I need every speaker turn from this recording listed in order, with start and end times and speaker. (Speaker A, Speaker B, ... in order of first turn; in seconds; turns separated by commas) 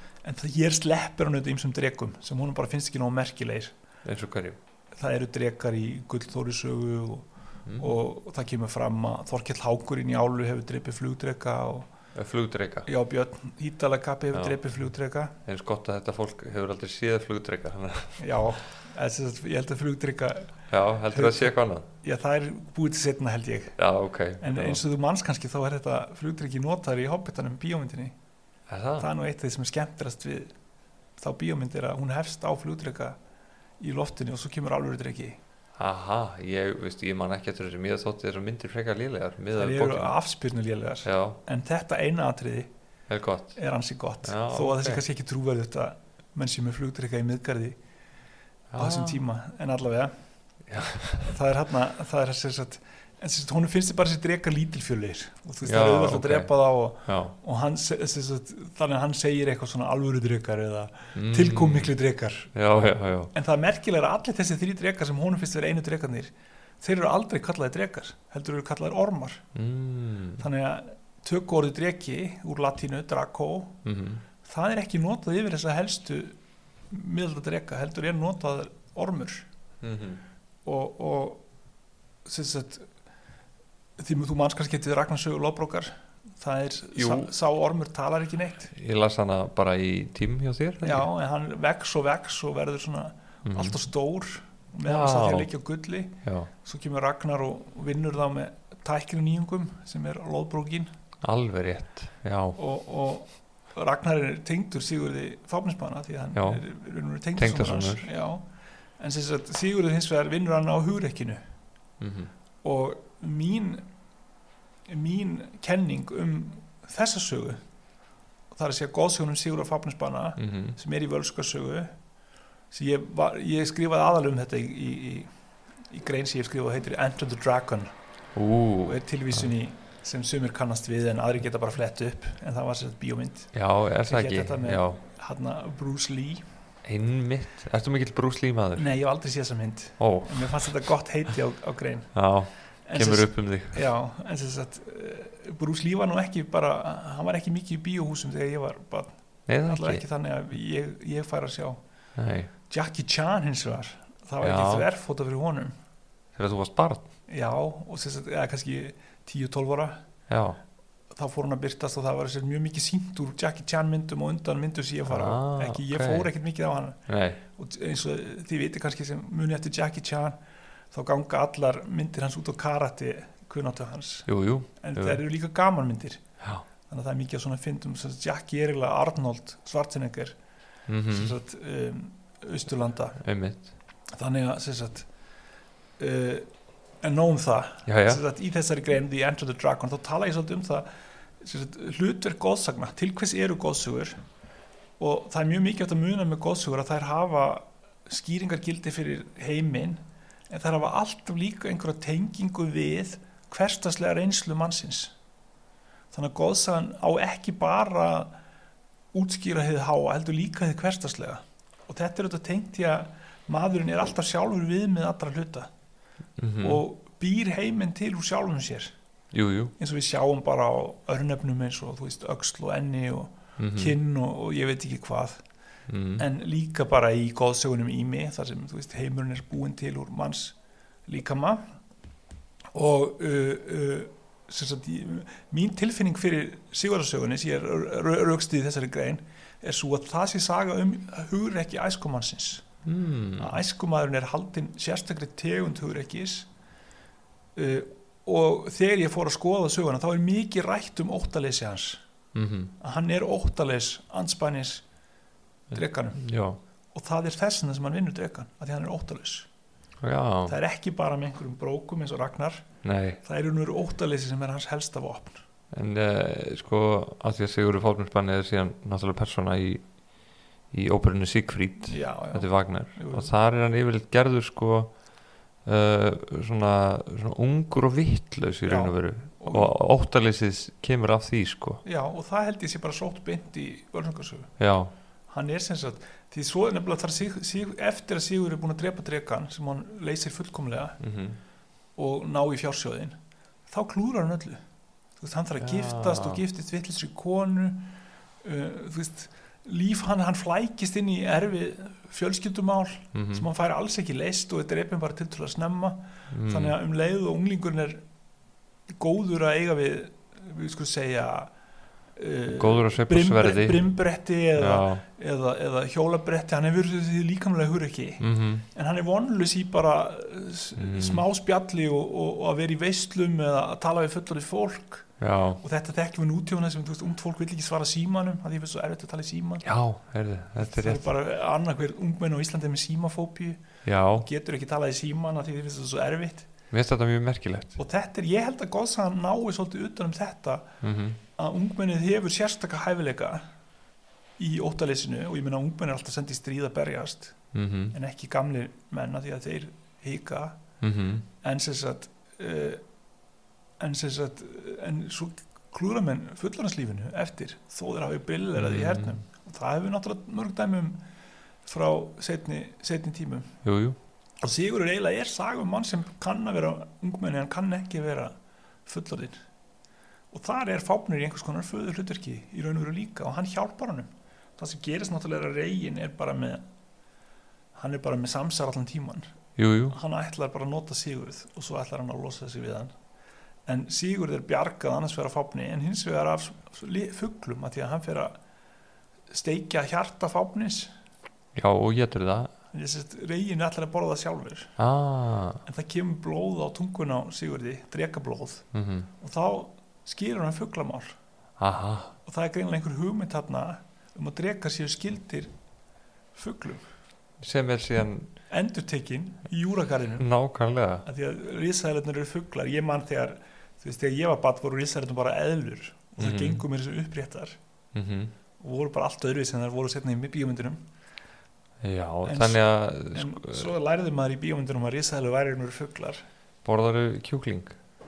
Speaker A: 0.2-3.7, Speaker B: 4.0-4.6, Speaker A: 5.0-11.9, Speaker B: 7.7-7.9, Speaker B: 12.1-12.9, Speaker A: 12.8-15.3, Speaker B: 14.3-14.6, Speaker B: 15.4-18.2, Speaker A: 18.2-20.6, Speaker B: 20.7-21.9, Speaker A: 21.1-23.8, Speaker B: 23.8-24.8, Speaker A: 24.4-28.1, Speaker B: 28.7-29.1, Speaker A: 29.0-30.5, Speaker A: 31.2-33.1, Speaker A: 33.8-35.4, Speaker B: 35.8-40.1, Speaker A: 39.5-42.7, Speaker B: 41.0-41.4, Speaker B: 43.1-43.6, Speaker A: 43.5-47.8, Speaker B: 44.2-45.0, Speaker B: 48.7-49.2, Speaker A: 48.8-50.1, Speaker B: 50.7-51.3, Speaker A: 51.2-62.5, Speaker B: 55.6-56.5, Speaker B: 57.0-57.3, Speaker B: 61.1-61.9, Speaker B: 62.5-63.3, Speaker A: 63.3-69.4, Speaker B: 69.5-70.4, Speaker A: 70.4-73.8, Speaker B: 73.8-74.2, Speaker A: 74.4-76.3, Speaker A: 76.9-79.5, Speaker B: 79.8-80.2, Speaker A: 80.6-81.4, Speaker A: 82.2-82.9, Speaker A: 84.0-88.7, Speaker B: 87.0-87.3, Speaker B: 88.7-91.1, Speaker A: 90.8-100.9, Speaker B: 93.4-93.8, Speaker B: 94.8-95.5, Speaker B: 96.2-96.5, Speaker B: 101.2-102.6, Speaker A: 102.6-108.5, Speaker B: 106.3-106.6, Speaker B: 107.4-108.1, Speaker A: 109.0-111.4, Speaker B: 112.0-112.3, Speaker A: 112.6-113.9, Speaker A: 114.9-117.6, Speaker A: 118.5-121.9, Speaker B: 120.4-120.8, Speaker A: 122.7-125.3, Speaker A: 125.9-127.9, Speaker B: 128.3-129.5, Speaker A: 128.8-133.5, Speaker B: 133.5-135.0, Speaker A: 134.0-136.4, Speaker B: 136.8-138.9, Speaker A: 138.7-142.1, Speaker B: 140.0-140.7, Speaker B: 142.1-143.8, Speaker A: 142.8-149.1, Speaker B: 149.5-150.0, Speaker A: 149.6-151.8, Speaker B: 152.2-152.5, Speaker A: 152.7-155.7, Speaker B: 154.4-154.8, Speaker B: 156.3-157.1, Speaker A: 157.3-160.0, Speaker B: 160.3-160.6, Speaker A: 161.1-170.3, Speaker B: 165.1-166.3, Speaker B: 167.1-167.4, Speaker A: 170.9-174.3, Speaker B: 174.3-175.2, Speaker A: 174.8-176.2, Speaker B: 176.4-176.7, Speaker A: 176.9-180.3, Speaker B: 180.9-181.3, Speaker A: 181.1-183.2, Speaker B: 183.2-183.7, Speaker A: 184.2-185.1, Speaker A: 186.0-186.5, Speaker A: 187.0-190.9, Speaker B: 187.8-188.2, Speaker A: 191.4-194.1, Speaker A: 195.0-205.1, Speaker A: 206.1-208.3, Speaker A: 209.1-215.7, Speaker B: 216.4-216.8, Speaker A: 216.6-218.9, Speaker B: 219.3-219.7, Speaker A: 219.8-225.4, Speaker B: 223.6-223.9, Speaker B: 225.9-226.2, Speaker A: 226.2-230.6, Speaker A: 231.1-231.6, Speaker A: 232.7-242.6, Speaker B: 242.8-243.6, Speaker A: 243.4-246.5, Speaker A: 247.6-252.0, Speaker B: 252.3-252.7, Speaker A: 252.8-254.8, Speaker A: 255.7-256.2, Speaker B: 256.1-256.6, Speaker A: 256.9-259.5, Speaker B: 260.0-260.5, Speaker A: 260.4-262.7, Speaker B: 262.8-263.2, Speaker A: 263.2-265.4, Speaker B: 265.7-269.9, Speaker B: 270.7-274.9, Speaker A: 271.9-273.3, Speaker B: 275.6-281.8, Speaker A: 278.6-279.7, Speaker A: 281.8-284.5, Speaker B: 284.6-284.9, Speaker A: 285.3-291.0, Speaker B: 291.0-291.4, Speaker A: 292.0-293.2, Speaker A: 293.7-294.6, Speaker A: 295.2-308.0, Speaker B: 295.6-296.4, Speaker B: 303.1-303.5, Speaker B: 306.3-306.8, Speaker A: 308.9-311.5, Speaker A: 312.1-329.7, Speaker B: 312.5-313.9, Speaker B: 314.5-315.0, Speaker B: 318.2-318.6, Speaker B: 320.8-321.2, Speaker B: 325.2-325.6, Speaker B: 329.6-331.1, Speaker A: 330.6-336.5, Speaker B: 333.8-334.2, Speaker B: 336.7-337.8, Speaker A: 337.8-340.8, Speaker B: 340.8-341.2, Speaker A: 341.3-343.4, Speaker A: 344.4-347.4, Speaker B: 347.5-347.9, Speaker A: 347.9-350.6, Speaker B: 350.8-351.3, Speaker A: 351.4-352.8, Speaker A: 353.8-361.0, Speaker B: 358.6-359.2, Speaker A: 361.6-363.6, Speaker B: 363.6-364.0, Speaker A: 364.4-368.3, Speaker A: 368.9-369.4, Speaker A: 370.3-376.6, Speaker A: 377.7-379.3, Speaker B: 379.6-379.9, Speaker A: 379.9-382.9, Speaker A: 383.6-388.4, Speaker A: 389.3-390.9, Speaker B: 391.5-392.5, Speaker A: 392.7-394.8, Speaker B: 394.8-395.6, Speaker A: 395.6-398.6, Speaker B: 398.7-399.1, Speaker A: 399.2-401.1, Speaker B: 401.6-402.1, Speaker A: 402.2-405.5, Speaker A: 406.3-406.9, Speaker B: 407.4-408.3, Speaker A: 408.5-410.3, Speaker B: 410.2-411.1, Speaker A: 411.0-417.6, Speaker B: 416.2-416.6, Speaker B: 417.9-418.3, Speaker A: 418.6-420.8, Speaker B: 421.8-423.7, Speaker A: 422.2-426.2, Speaker B: 426.6-427.8